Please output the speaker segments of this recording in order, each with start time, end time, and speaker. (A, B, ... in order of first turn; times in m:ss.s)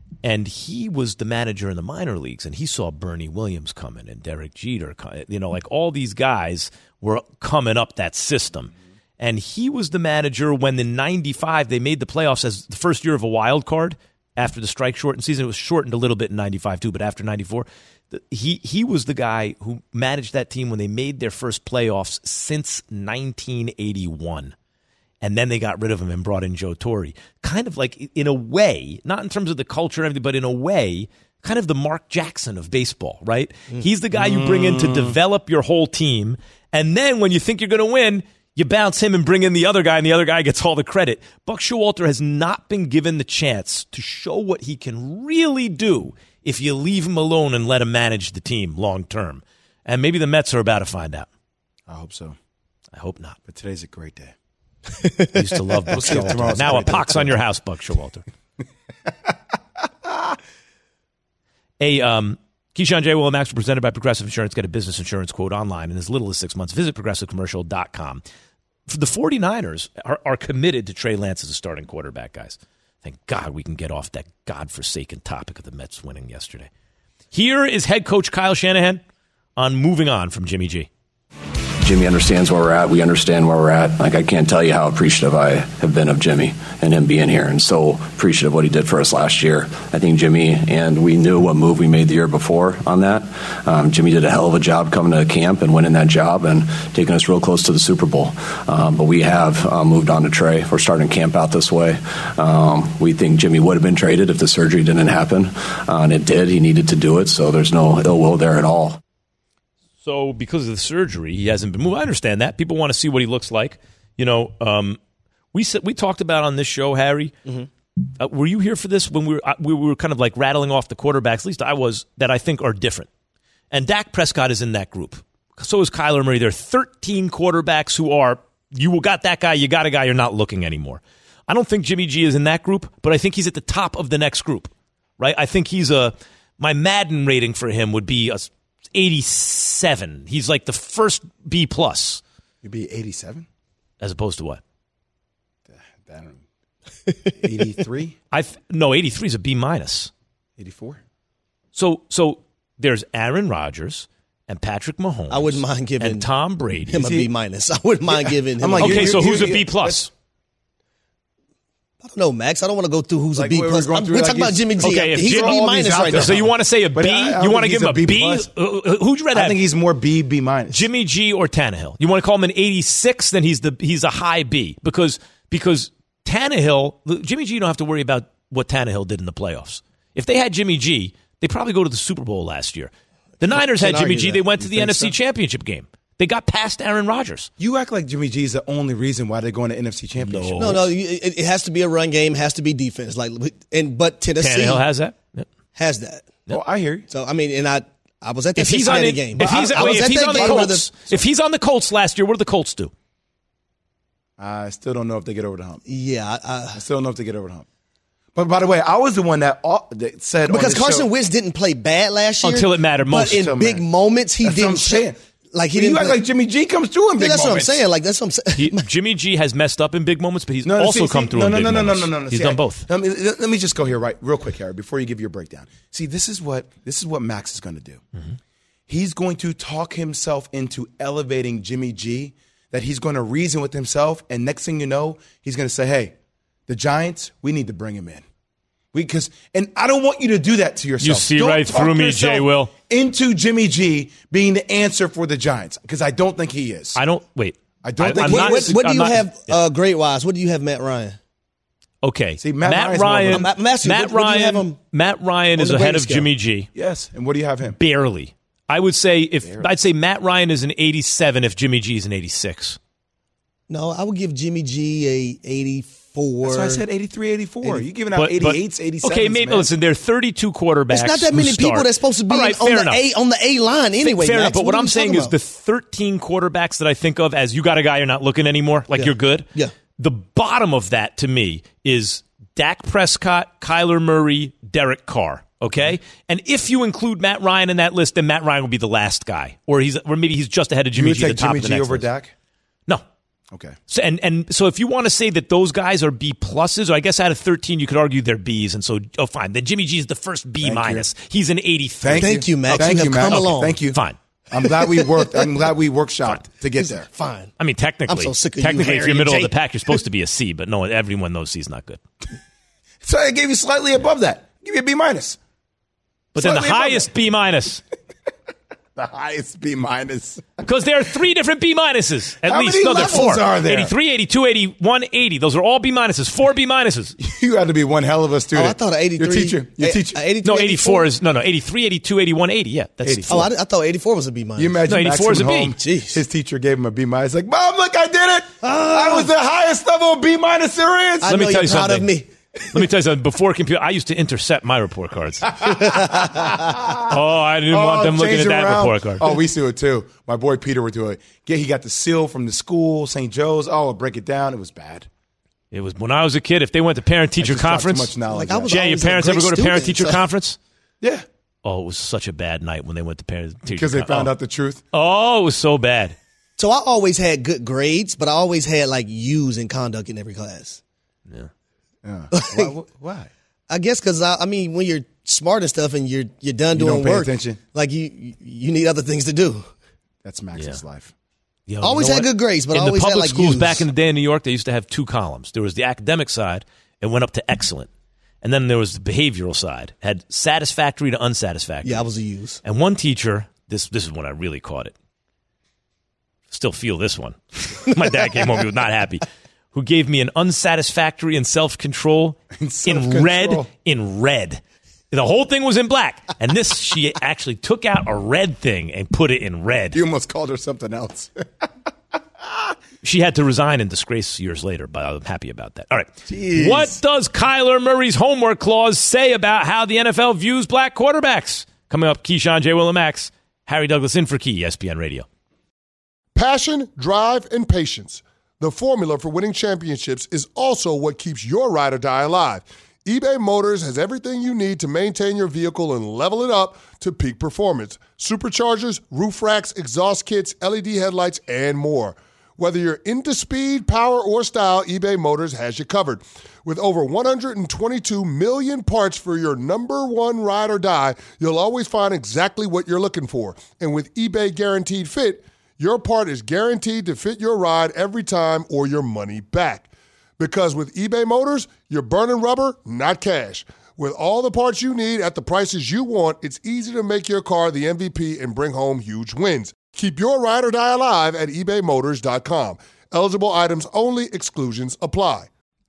0:00.2-0:24.5 A
0:25.2-0:51.3 A
0:34.1-0:35.2 B
0:51.9-0:52.4 B
0:53.0-0:53.4 A
0:53.5-0:54.3 B
0:55.0-0:55.4 C
0:55.3-0:58.2 A
0:55.9-0:57.4 B
1:01.8-1:08.2 A
1:08.9-1:16.7 A
1:17.3-1:19.0 A
1:19.6-1:20.9 A
1:21.8-1:49.0 D
1:50.0-1:55.0 A
1:55.5-1:57.3 A
1:58.2-2:03.1 A
2:03.7-2:22.2 A
2:22.6-2:23.5 B
2:24.0-2:24.6 A
2:25.7-2:26.4 B
2:27.1-2:27.3 C
2:27.4-2:28.2 B
2:28.3-2:30.1 A
2:30.6-2:31.0 B
2:31.8-2:37.1 A
2:35.3-2:36.3 C
2:36.9-2:39.5 C
2:36.9-2:37.3 B
2:38.1-2:40.1 B
2:38.8-2:40.1 A
2:42.0-2:46.5 C
2:43.3-2:48.5 B
2:44.8-2:49.6 A
2:49.3-2:50.9 B
2:50.7-3:07.5 A
3:03.4-3:04.4 C
3:04.6-3:05.1 B
3:07.6-3:10.8 B
3:10.2-3:10.9 A
3:10.6-3:14.8 C
3:14.4-3:15.5 A
3:15.8-3:16.4 C
3:16.5-3:17.1 B
3:17.1-3:20.9 C
3:18.6-3:22.9 A
3:19.4-3:20.8 B
3:24.4-3:25.8 B
3:25.8-3:26.8 C
3:26.8-3:27.7 B
3:28.4-3:31.1 B
3:30.5-3:36.2 C
3:32.4-3:33.5 A
3:33.3-3:33.8 B
3:34.4-3:35.2 B
3:35.8-3:37.8 B
3:37.2-3:38.9 C
3:38.6-3:42.9 A
3:40.6-3:48.0 B
3:48.9-3:56.1 B
3:56.7-3:58.2 B
3:58.9-4:07.0 B
4:01.0-4:02.7 A
4:07.0-4:09.6 A
4:07.8-4:08.8 B
4:08.1-4:11.2 C
4:12.0-4:16.7 A
4:12.4-4:13.5 B
4:13.3-4:14.8 C
4:15.6-4:16.3 C
4:16.7-4:17.8 B
4:17.8-4:22.8 A
4:19.4-4:19.7 B
4:23.7-4:26.8 C
4:26.4-4:29.7 B
4:28.2-4:33.0 A
4:30.9-4:35.4 C
4:34.0-4:39.5 A
4:38.9-4:39.7 C
4:40.0-4:52.1 A
4:51.0-4:52.3 B
4:53.9-5:04.2 A
5:00.6-5:01.1 B
5:02.0-5:07.1 B
5:02.2-5:03.8 C
5:04.7-5:05.5 C
5:07.1-5:07.5 C
5:07.6-5:12.0 A
5:08.1-5:09.5 C
5:13.0-5:15.4 B
5:16.3-5:17.8 A
5:16.4-5:17.1 B
5:19.0-5:20.6 B
5:20.6-5:27.2 A
5:22.4-5:23.9 B
5:23.0-5:23.2 C
5:27.2-5:30.2 B
5:28.5-5:31.1 C
5:30.4-5:33.5 A
5:33.0-5:33.5 B
5:33.3-5:34.8 C
5:34.6-5:41.3 B
5:34.9-5:35.7 A
5:35.7-5:36.2 C
5:38.6-5:39.3 C
5:41.2-5:42.3 C
5:41.3-5:42.1 A
5:42.7-5:45.5 A
5:45.6-5:47.1 B
5:45.7-5:46.7 C
5:47.1-5:49.2 A
5:47.7-5:55.1 B
5:55.7-5:58.1 A
5:57.4-5:58.7 B
5:58.3-6:00.2 C
5:58.7-6:00.6 A
6:01.6-6:04.3 A
6:03.7-6:04.8 B
6:04.9-6:06.2 A
6:06.6-6:10.8 C
6:12.0-6:13.3 B
6:12.3-6:12.7 C
6:13.7-6:19.7 C
6:16.7-6:17.6 B
6:20.2-6:21.1 B
6:21.7-6:27.9 A
6:21.8-6:23.9 C
6:28.4-6:32.1 A
6:31.8-6:32.6 C
6:32.6-6:35.0 A
6:36.5-6:50.0 A
6:42.6-6:43.7 B
6:49.9-6:51.7 B
6:52.5-6:52.7 B
6:53.0-7:05.3 A
6:56.3-6:57.0 C
7:06.4-7:55.5 E